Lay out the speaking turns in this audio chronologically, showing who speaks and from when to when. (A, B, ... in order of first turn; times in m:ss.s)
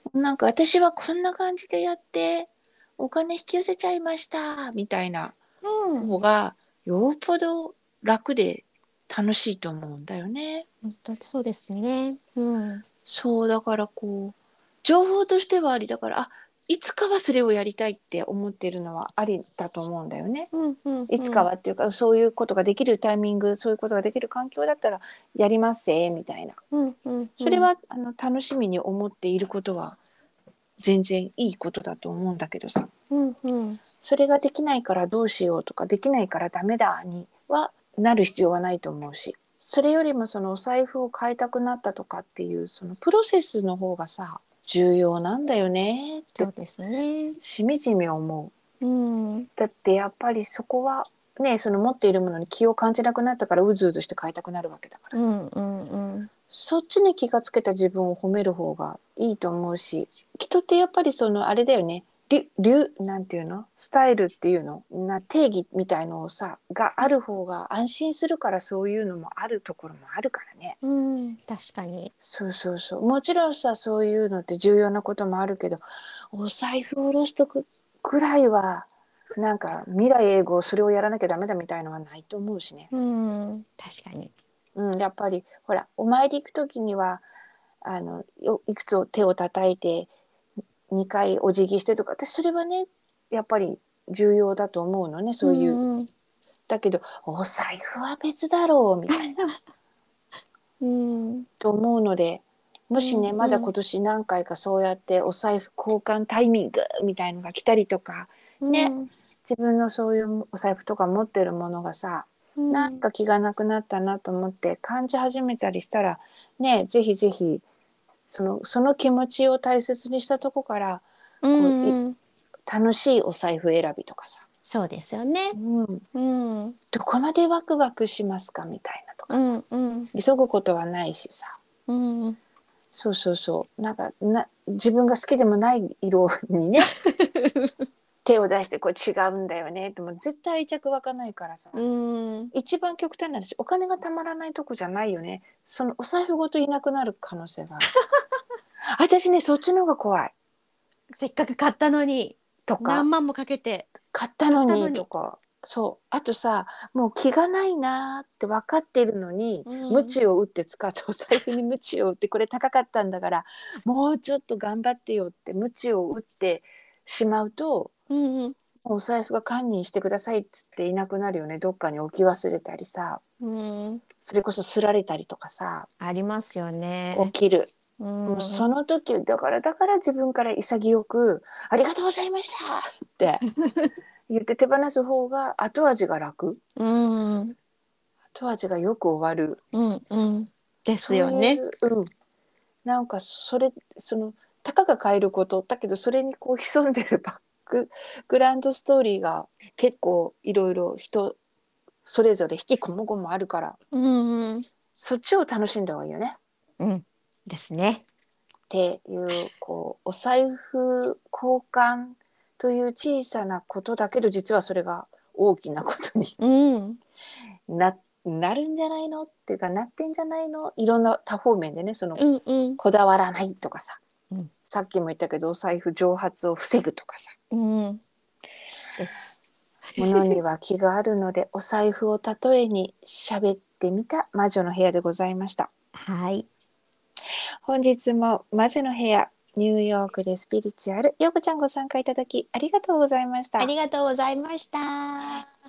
0:00.1-0:05.4 A
0:05.6-0:06.1 B
0:06.0-0:10.7 A
0:10.8-0:12.8 B
0:13.0-0:20.5 A
0:20.5-0:21.5 B
0:21.1-0:26.6 A
0:26.7-0:27.7 B
0:27.4-0:30.0 A
0:30.8-0:32.9 A
0:33.1-0:33.8 B
0:34.0-0:46.5 A
0:46.4-0:47.4 B
0:47.4-0:48.5 A
0:48.8-0:49.5 B
0:49.6-0:55.2 A
0:55.1-0:56.3 B
0:56.5-1:10.8 A
1:10.8-1:12.1 B
1:12.2-1:22.9 A
1:22.9-1:24.3 B
1:24.8-1:27.2 A
1:27.8-1:30.1 A
1:30.9-1:35.8 A
1:35.4-1:36.1 B
1:36.7-1:39.4 A
1:39.1-1:39.6 B
1:40.8-1:41.5 B
1:41.6-1:48.9 A
1:43.0-1:43.7 B
1:48.6-1:49.1 B
1:49.4-1:57.6 A
1:52.6-1:53.0 B
1:58.3-2:02.0 A
2:01.4-2:02.2 B
2:02.7-2:04.4 A
2:04.6-2:05.6 B
2:05.5-2:06.0 A
2:06.1-2:06.8 B
2:06.9-2:09.5 A
2:09.3-2:10.1 B
2:10.1-2:11.6 A
2:11.9-2:12.4 B
2:12.9-2:16.9 A
2:17.0-2:17.7 B
2:18.2-2:21.8 A
2:21.7-2:22.5 B
2:22.5-2:27.9 A
2:28.9-2:30.3 A
2:31.2-2:33.9 B
2:32.7-2:33.1 A
2:34.1-2:47.9 A
2:34.5-2:35.0 B
2:39.6-2:40.2 B
2:48.1-2:48.6 B
2:48.8-2:53.2 A
2:53.4-2:54.0 B
2:54.2-2:55.9 A
2:56.0-2:57.3 B
2:57.1-2:57.7 A
2:58.0-2:58.7 B
2:58.3-3:03.4 A
3:03.6-3:03.9 B
3:04.3-3:06.6 A
3:06.8-3:07.6 B
3:08.3-3:09.6 A
3:09.7-3:11.6 B
3:11.0-3:12.1 A
3:12.8-3:21.4 A
3:22.0-3:23.8 A
3:23.9-3:24.7 B
3:25.0-3:26.4 A
3:26.8-3:28.0 B
3:28.7-3:36.3 A
3:36.4-3:37.0 B
3:37.7-3:42.2 A
3:42.2-3:42.8 B
3:42.8-3:44.0 A
3:44.7-3:47.3 A
3:47.5-3:48.0 B
3:49.0-3:49.4 B
3:49.9-3:50.4 B
3:50.0-3:55.7 A
3:55.9-3:56.5 B
3:57.6-4:03.7 A
4:03.6-4:05.5 B